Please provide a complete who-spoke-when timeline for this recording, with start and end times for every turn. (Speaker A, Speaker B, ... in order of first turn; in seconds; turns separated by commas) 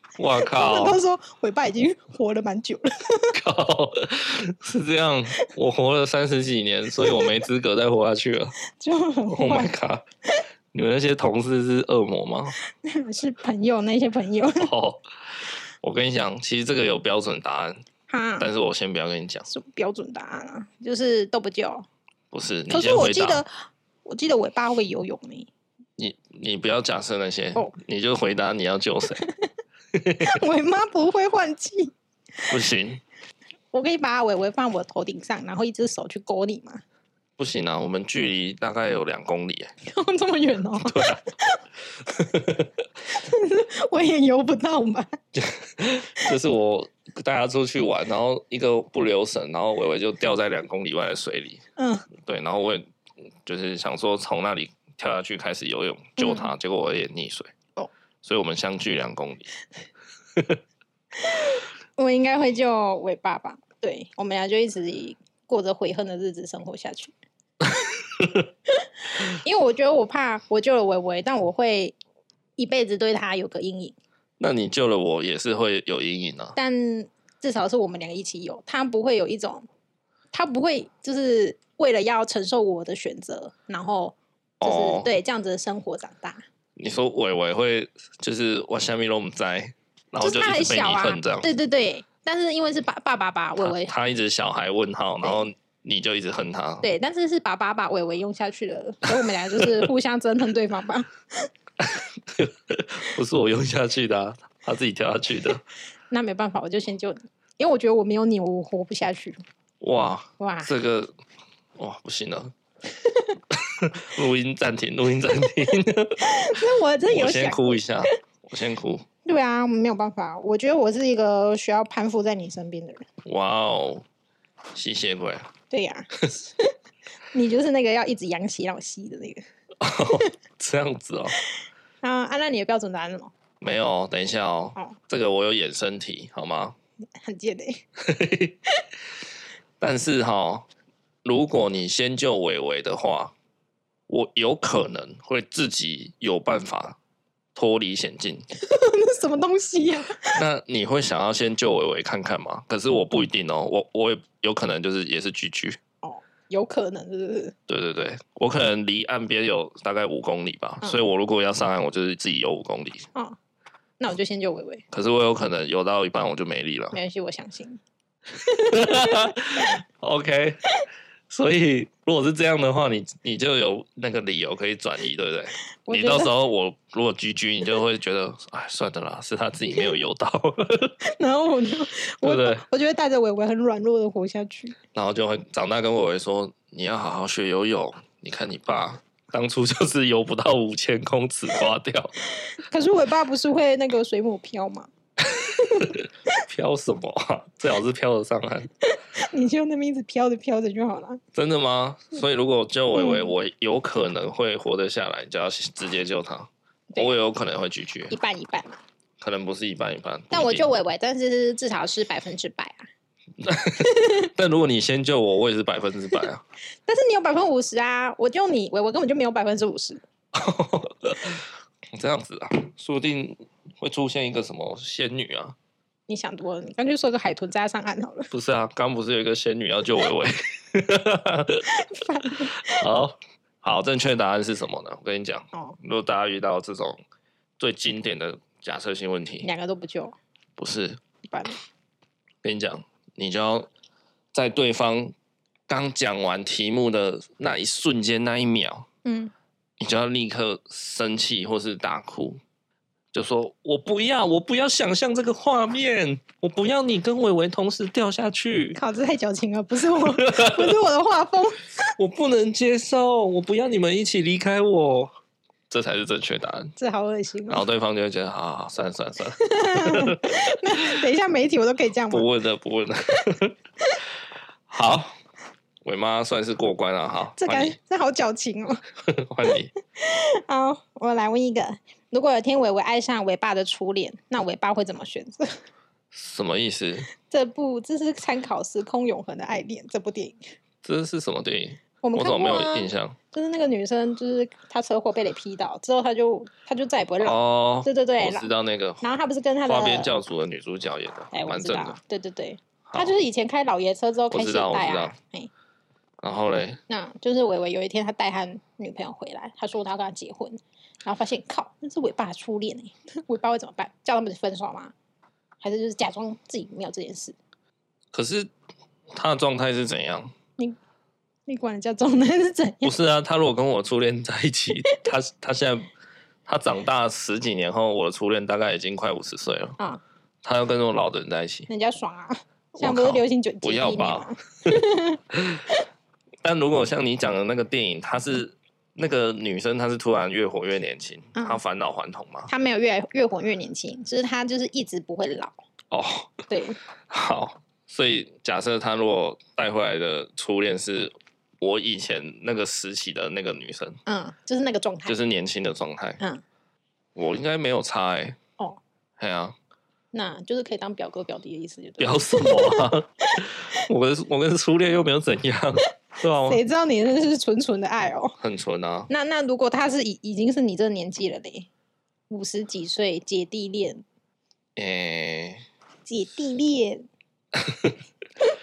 Speaker A: 0.2-1.0, Speaker B: 0.4-3.4, Speaker A: 3.3-8.5, Speaker B: 7.0-7.3, Speaker B: 8.7-9.7, Speaker A: 9.3-10.1, Speaker A: 10.7-12.5, Speaker B: 12.6-14.7, Speaker A: 14.6-17.8, Speaker B: 18.1-18.5, Speaker A: 18.4-19.5, Speaker B: 19.5-21.9, Speaker A: 22.3-23.4, Speaker B: 22.7-23.5, Speaker B: 24.1-25.5, Speaker A: 26.0-29.2, Speaker B: 29.2-29.5, Speaker A: 29.9-30.4, Speaker B: 30.2-32.5, Speaker A: 32.5-33.0, Speaker B: 33.7-36.8, Speaker A: 37.4-39.7, Speaker B: 39.9-41.6, Speaker A: 40.8-41.2, Speaker A: 42.0-42.7, Speaker B: 43.1-45.2, Speaker A: 45.3-51.6, Speaker B: 51.8-52.1, Speaker A: 52.2-52.9, Speaker A: 53.5-57.5, Speaker B: 56.2-56.5, Speaker A: 58.2-59.5, Speaker B: 61.2-67.1, Speaker A: 68.2-68.5, Speaker B: 68.8-72.0, Speaker B: 72.6-74.0, Speaker A: 74.4-76.6, Speaker B: 76.6-79.7, Speaker B: 80.3-86.4, Speaker A: 84.6-85.1, Speaker A: 86.8-91.5, Speaker B: 90.2-93.9, Speaker A: 93.6-96.9, Speaker B: 96.8-101.5, Speaker A: 99.1-99.9, Speaker A: 101.8-105.6, Speaker B: 106.1-109.4, Speaker A: 109.8-111.1, Speaker B: 110.4-110.7, Speaker A: 111.8-112.5, Speaker B: 113.0-113.4, Speaker A: 113.5-119.1, Speaker B: 116.2-118.2, Speaker B: 119.2-123.0, Speaker A: 123.2-124.1, Speaker A: 124.8-125.5, Speaker B: 125.7-126.7, Speaker B: 127.3-129.4, Speaker A: 129.8-131.4, Speaker B: 132.0-133.3, Speaker A: 133.6-136.8, Speaker B: 137.2-137.8, Speaker A: 138.0-138.6, Speaker A: 139.8-140.7, Speaker A: 141.2-143.3, Speaker A: 144.1-147.0, Speaker A: 147.6-148.5, Speaker B: 148.6-150.4, Speaker A: 150.3-155.8, Speaker B: 156.0-157.6, Speaker A: 157.7-163.1, Speaker B: 164.0-164.8, Speaker A: 164.9-167.0, Speaker B: 166.9-167.8, Speaker B: 168.5-169.3, Speaker A: 168.6-170.6, Speaker A: 171.3-180.9, Speaker B: 175.9-176.3, Speaker B: 181.0-184.8, Speaker A: 182.2-182.6, Speaker A: 184.9-192.1, Speaker B: 192.4-194.9, Speaker A: 195.2-198.7, Speaker B: 195.6-195.9, Speaker B: 198.8-201.2, Speaker A: 201.3-208.1, Speaker B: 202.9-203.3, Speaker B: 208.1-208.8, Speaker A: 209.2-210.7, Speaker B: 210.3-212.9, Speaker A: 213.4-216.4, Speaker B: 213.8-214.3, Speaker B: 216.9-220.0, Speaker A: 220.3-225.6, Speaker B: 226.1-228.3, Speaker A: 228.3-231.7, Speaker B: 231.6-232.9, Speaker A: 232.4-237.0, Speaker A: 237.6-239.5, Speaker B: 239.4-240.2, Speaker A: 240.6-241.0, Speaker B: 241.3-241.6, Speaker A: 242.4-243.7, Speaker A: 244.3-245.1, Speaker A: 245.7-248.9, Speaker B: 249.1-249.3, Speaker A: 249.8-252.4, Speaker A: 253.1-258.8, Speaker B: 258.8-261.9, Speaker A: 259.9-260.8, Speaker A: 262.0-265.1, Speaker A: 265.7-266.7, Speaker B: 266.8-267.6, Speaker A: 267.5-271.0, Speaker B: 269.4-272.3, Speaker A: 272.1-273.6, Speaker A: 274.7-275.2, Speaker A: 275.8-277.8, Speaker B: 277.4-278.8, Speaker A: 279.1-279.7, Speaker B: 280.0-285.5, Speaker A: 286.1-287.1, Speaker B: 287.2-290.4, Speaker A: 290.8-293.2, Speaker B: 292.0-298.5, Speaker A: 297.2-299.0, Speaker B: 299.0-300.1, Speaker A: 299.6-302.0, Speaker B: 301.3-305.5, Speaker A: 302.9-303.2, Speaker A: 304.3-305.2, Speaker A: 306.2-306.8, Speaker B: 306.9-314.9, Speaker B: 315.6-317.4, Speaker A: 318.1-318.5, Speaker A: 319.1-320.3, Speaker B: 321.5-323.0, Speaker A: 322.8-325.9, Speaker A: 326.5-329.8, Speaker A: 330.4-331.7, Speaker B: 331.7-335.8, Speaker A: 332.8-334.3, Speaker A: 335.3-335.6, Speaker A: 336.4-342.5, Speaker B: 341.4-341.6, Speaker B: 342.5-345.6, Speaker A: 345.9-346.4, Speaker B: 346.5-346.8, Speaker A: 347.1-354.0, Speaker B: 354.1-355.2, Speaker A: 355.1-356.2, Speaker A: 357.1-358.4, Speaker A: 359.2-359.6, Speaker B: 360.1-363.8, Speaker A: 362.0-366.6, Speaker B: 366.4-368.4, Speaker A: 368.4-369.1, Speaker B: 369.1-371.7, Speaker B: 372.3-374.0, Speaker A: 374.8-375.6, Speaker B: 376.1-377.1, Speaker A: 377.6-377.9